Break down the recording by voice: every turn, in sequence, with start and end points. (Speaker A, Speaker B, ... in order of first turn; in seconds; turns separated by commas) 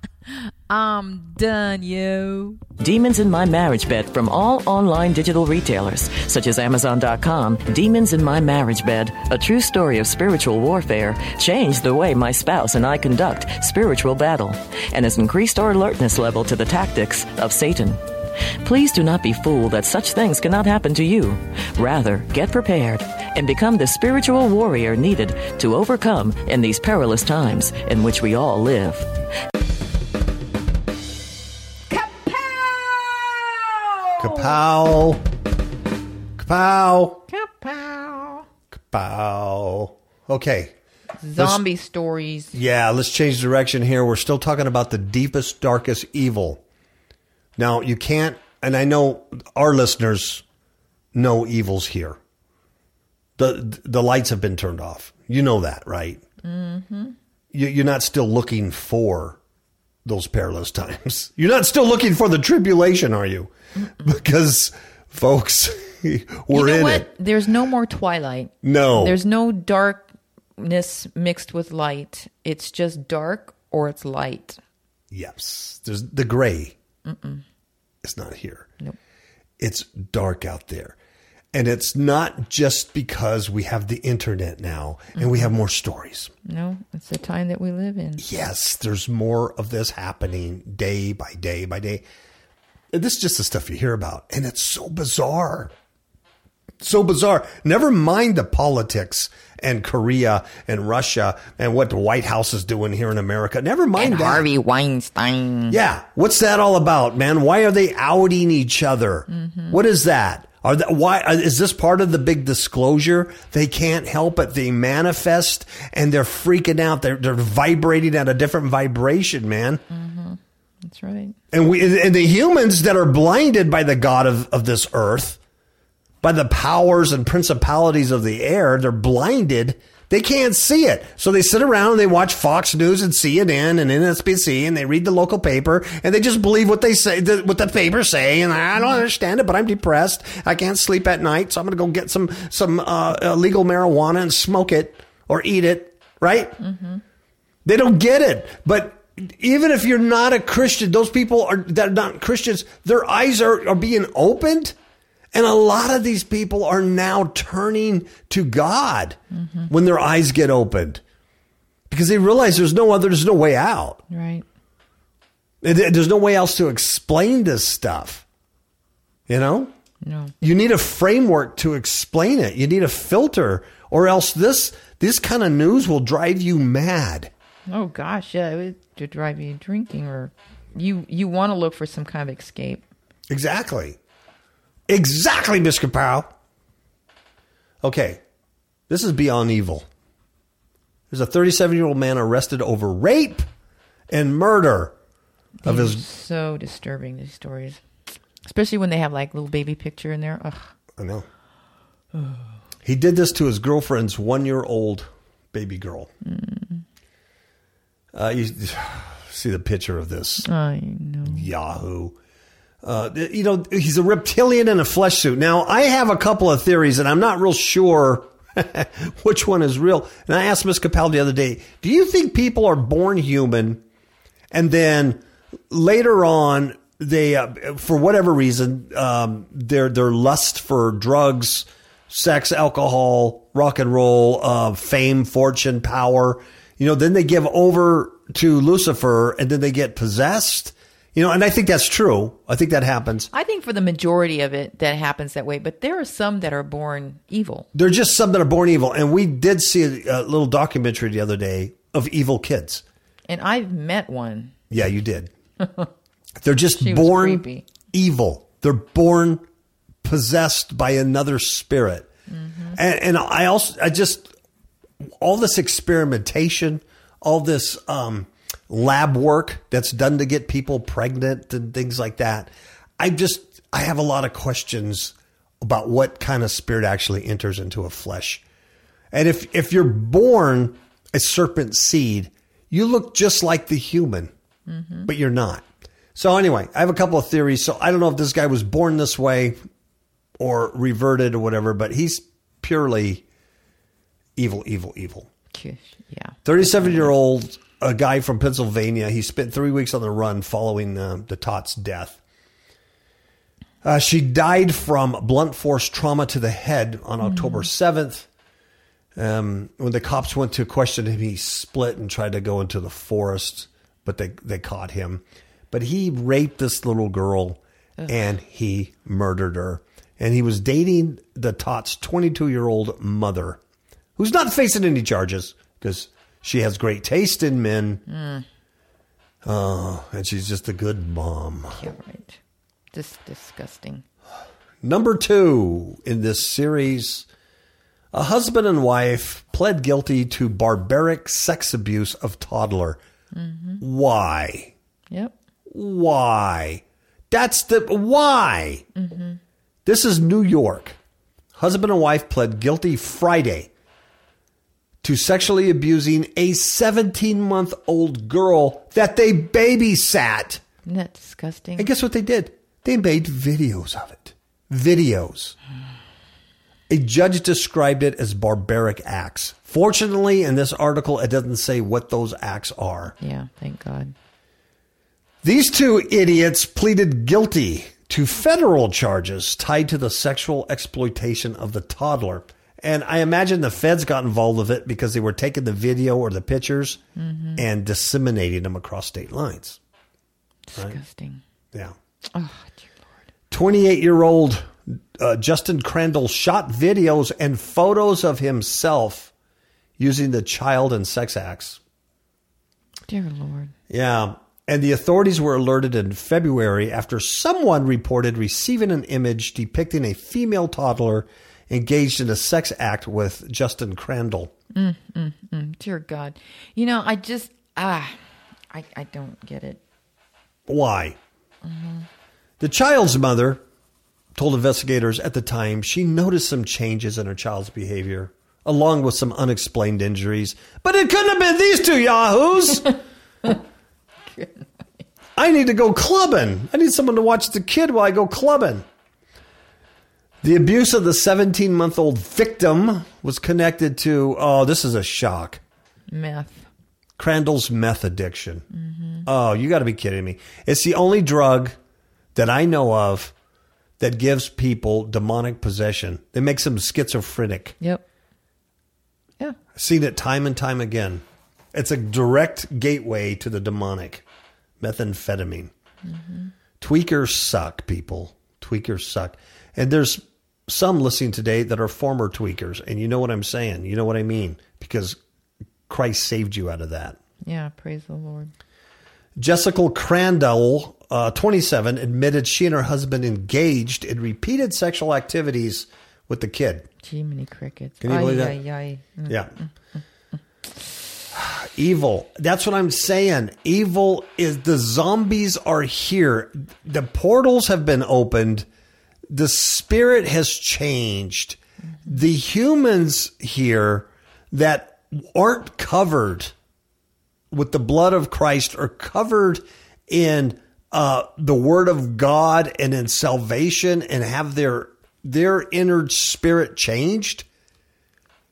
Speaker A: 0.3-2.6, Speaker B: 2.8-18.0, Speaker B: 18.6-29.1, Speaker A: 32.1-33.2, Speaker C: 34.2-35.2, Speaker C: 36.4-37.3, Speaker A: 37.3-38.4, Speaker C: 38.7-40.7, Speaker A: 41.2-42.5, Speaker C: 41.4-41.6, Speaker C: 42.5-46.6, Speaker C: 47.6-50.4, Speaker C: 51.1-52.2, Speaker C: 53.4-56.2, Speaker A: 56.4-57.1, Speaker C: 57.5-59.4, Speaker C: 60.0-67.1, Speaker A: 66.5-74.6, Speaker C: 68.6-69.2, Speaker C: 75.1-76.7, Speaker A: 77.0-77.4, Speaker C: 78.0-78.7, Speaker C: 79.6-81.0, Speaker C: 81.5-86.3, Speaker A: 85.2-85.5, Speaker A: 86.5-88.2, Speaker C: 88.2-92.0, Speaker C: 92.9-95.7, Speaker C: 96.8-104.5, Speaker A: 103.9-105.8, Speaker C: 105.7-119.8, Speaker A: 109.3-109.8, Speaker A: 119.9-121.3, Speaker C: 121.5-125.4, Speaker C: 126.2-146.6, Speaker A: 146.7-147.0, Speaker C: 147.6-154.7, Speaker C: 155.3-159.2, Speaker A: 159.3-159.7, Speaker C: 159.7-161.0, Speaker C: 161.9-164.0, Speaker A: 164.1-164.4, Speaker C: 165.6-168.2, Speaker C: 169.3-169.7, Speaker A: 170.0-170.3, Speaker C: 170.4-177.3, Speaker A: 177.7-182.8, Speaker C: 183.3-184.0, Speaker C: 184.9-186.3, Speaker C: 187.8-188.2, Speaker C: 188.9-189.9, Speaker C: 191.1-193.4, Speaker C: 194.1-194.9, Speaker A: 195.6-197.8, Speaker C: 195.6-196.0, Speaker A: 198.4-200.7, Speaker C: 201.0-201.2, Speaker C: 202.8-206.1, Speaker A: 206.2-206.8, Speaker C: 208.1-210.5, Speaker A: 210.4-211.5, Speaker C: 211.2-212.2, Speaker C: 212.8-223.8, Speaker C: 224.5-243.3, Speaker A: 243.3-247.7, Speaker C: 247.7-252.8, Speaker A: 253.3-254.5, Speaker C: 254.7-255.3, Speaker A: 255.6-255.9, Speaker C: 256.4-259.4, Speaker A: 256.8-257.7, Speaker C: 260.0-262.1, Speaker A: 262.3-262.8, Speaker C: 262.7-264.3, Speaker C: 265.2-278.4, Speaker C: 279.1-284.3, Speaker A: 284.7-285.1, Speaker C: 285.1-285.6, Speaker C: 286.1-289.6, Speaker C: 290.4-293.2, Speaker C: 294.4-295.3, Speaker A: 295.5-296.4, Speaker C: 296.4-302.2, Speaker C: 303.8-308.3, Speaker A: 307.3-307.6, Speaker C: 309.1-323.6, Speaker C: 324.2-328.0, Speaker A: 328.1-328.4, Speaker C: 329.4-331.9, Speaker A: 331.8-332.4, Speaker A: 332.9-334.0, Speaker C: 334.8-337.2, Speaker C: 338.1-343.0, Speaker A: 343.3-343.8, Speaker C: 343.8-344.7, Speaker C: 345.7-348.8, Speaker A: 348.9-349.4, Speaker C: 349.8-351.0, Speaker C: 351.6-353.7, Speaker C: 355.0-360.6, Speaker A: 360.8-361.9, Speaker C: 361.8-365.6, Speaker C: 366.9-373.1, Speaker A: 373.2-374.1, Speaker C: 375.4-387.0, Speaker A: 387.1-387.6, Speaker C: 387.6-389.8, Speaker A: 390.7-391.4, Speaker A: 392.3-392.9, Speaker C: 393.5-399.3, Speaker C: 400.0-401.8, Speaker A: 403.1-403.7, Speaker C: 403.9-414.5, Speaker A: 414.7-419.8, Speaker C: 420.7-421.2, Speaker A: 421.6-422.1, Speaker C: 422.6-423.6, Speaker C: 424.3-432.9, Speaker C: 435.4-438.8, Speaker C: 440.4-445.6, Speaker A: 446.1-446.7, Speaker C: 447.2-448.6, Speaker A: 448.7-449.3, Speaker C: 449.2-451.8, Speaker C: 452.3-453.3, Speaker C: 454.0-457.8, Speaker C: 459.7-464.2, Speaker C: 464.8-465.7, Speaker A: 466.1-466.5, Speaker C: 466.8-475.2, Speaker C: 475.9-477.2, Speaker A: 477.4-478.5, Speaker C: 479.4-486.9, Speaker A: 487.0-489.7, Speaker C: 488.0-488.6, Speaker C: 489.3-489.5, Speaker C: 491.3-498.7, Speaker C: 499.3-506.5, Speaker C: 507.5-517.5